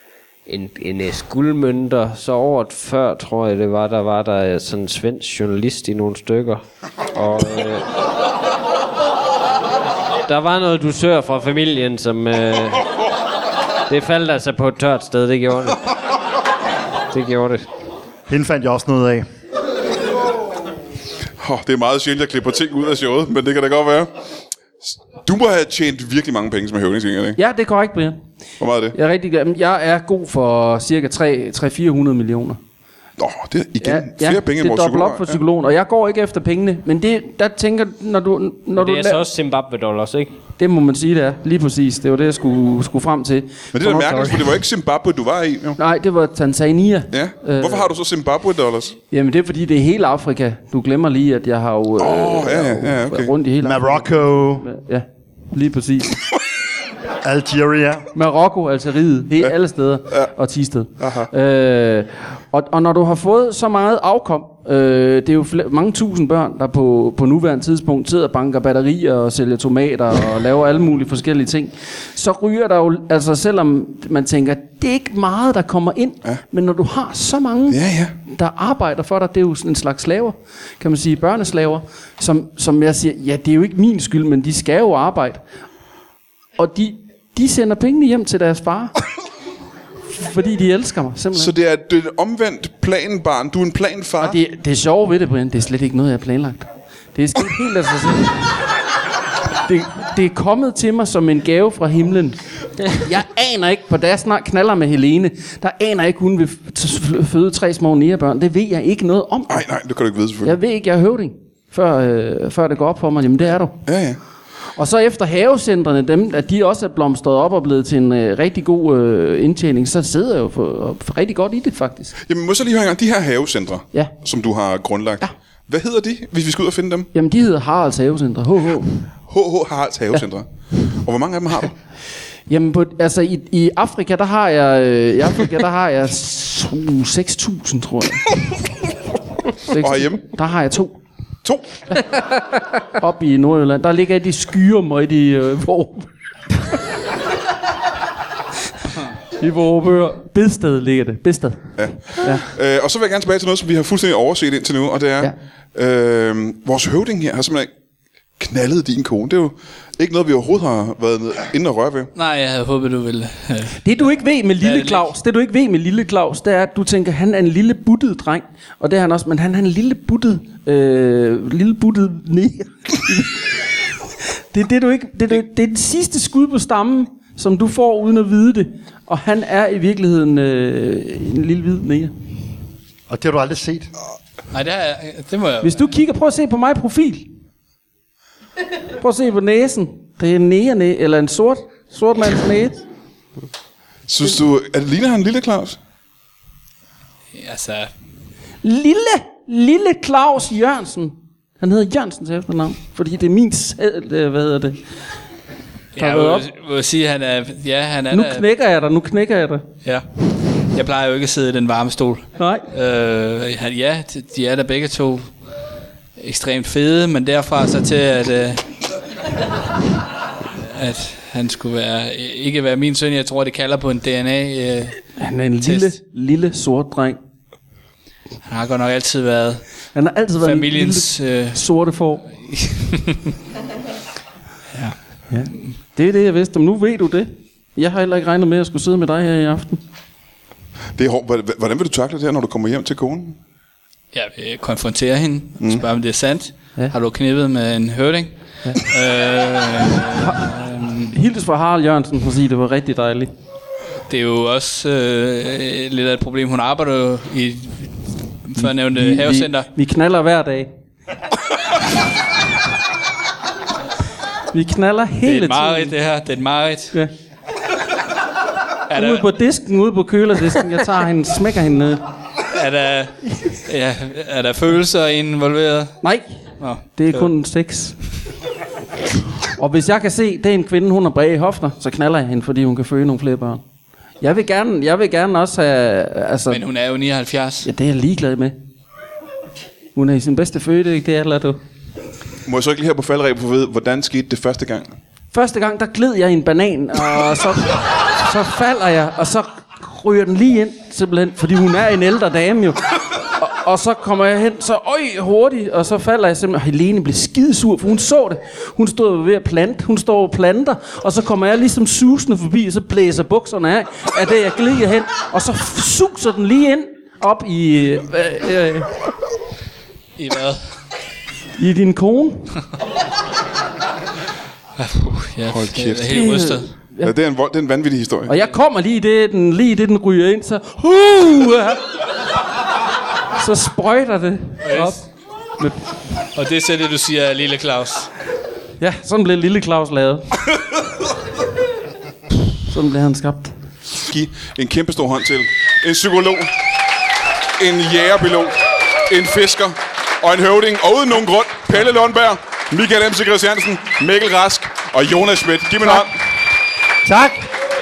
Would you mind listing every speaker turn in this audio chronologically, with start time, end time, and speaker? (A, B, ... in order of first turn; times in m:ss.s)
0:00.5-0:07.9 A
0:10.2-0:13.0 A
0:13.9-0:16.0 A
0:17.1-0:17.7 A
0:18.3-0:19.2 B
0:21.4-0:24.1 C
0:25.2-0:27.4 C
0:27.4-0:28.2 D
0:28.6-0:29.0 C
0:28.9-0:32.6 D
0:33.2-0:35.4 C
0:33.8-0:39.2 D
0:38.8-0:40.3 A
0:40.6-0:44.5 D
0:43.7-0:45.8 C
0:45.8-0:47.9 D
0:47.1-0:49.0 C
0:49.1-0:56.2 D
0:52.0-0:53.3 C
0:53.6-0:54.7 B
0:57.2-0:58.1 B
0:58.1-1:25.4 D
1:01.0-1:01.3 C
1:17.7-1:18.1 C
1:26.6-1:28.9 D
1:30.1-1:31.5 D
1:31.3-1:34.4 C
1:34.2-1:38.4 D
1:39.5-1:49.6 D
1:49.5-1:50.6 C
1:50.4-1:53.8 D
1:53.8-1:54.2 C
1:54.8-2:02.1 D
2:02.3-2:07.1 C
2:07.1-2:09.0 D
2:09.3-2:11.7 C
2:12.5-2:18.3 D
2:19.7-2:21.0 D
2:19.7-2:20.3 C
2:21.4-2:21.7 C
2:23.0-2:26.1 D
2:29.4-2:32.4 D
2:31.8-2:37.7 C
2:38.4-2:42.1 C
2:42.1-2:43.8 E
2:43.8-3:02.1 D
2:44.6-2:45.0 E
3:03.1-3:03.9 B
3:04.5-3:05.8 E
3:05.6-3:07.3 D
3:09.0-3:12.8 D
3:14.1-3:15.8 C
3:17.3-3:17.9 E
3:18.6-3:24.9 D
3:26.0-3:28.4 E
3:26.0-3:26.5 D
3:28.1-3:29.6 D
3:30.6-3:35.3 E
3:32.4-3:32.7 D
3:36.2-3:38.7 E
3:40.6-3:45.0 E
3:45.1-3:47.2 D
3:45.6-3:45.9 E
3:48.4-3:49.6 E
3:49.9-3:52.3 D
3:50.4-3:51.6 E
3:52.2-3:53.2 E
3:55.3-3:59.8 D
4:01.0-4:03.4 C
4:04.1-4:11.1 E
4:10.2-4:10.4 D
4:11.1-4:13.3 D
4:14.1-4:19.7 E
4:18.6-4:20.7 D
4:24.5-4:25.9 D
4:25.2-4:26.9 E
4:28.9-4:29.2 E
4:28.9-4:32.0 D
4:32.5-4:36.0 E
4:36.0-4:36.3 D
4:36.6-4:37.3 E
4:36.8-4:38.0 D
4:39.6-4:43.6 D
4:44.2-4:46.6 D
4:46.5-4:47.7 E
4:47.6-4:48.5 D
4:49.9-4:51.6 D
4:52.4-4:55.0 C
4:55.3-5:19.0 D
5:20.2-5:20.6 E
5:21.6-5:22.6 D
5:24.8-5:26.7 E
5:25.5-5:26.2 C
5:26.1-5:27.1 D
5:27.0-5:28.4 C
5:28.2-5:31.8 D
5:33.4-5:35.0 D
5:34.6-5:35.0 E
5:35.6-5:35.8 D
5:36.3-5:38.1 E
5:38.8-5:40.3 D
5:42.7-5:43.5 D
5:44.1-5:46.5 C
5:47.6-5:56.1 C
5:57.0-5:57.5 B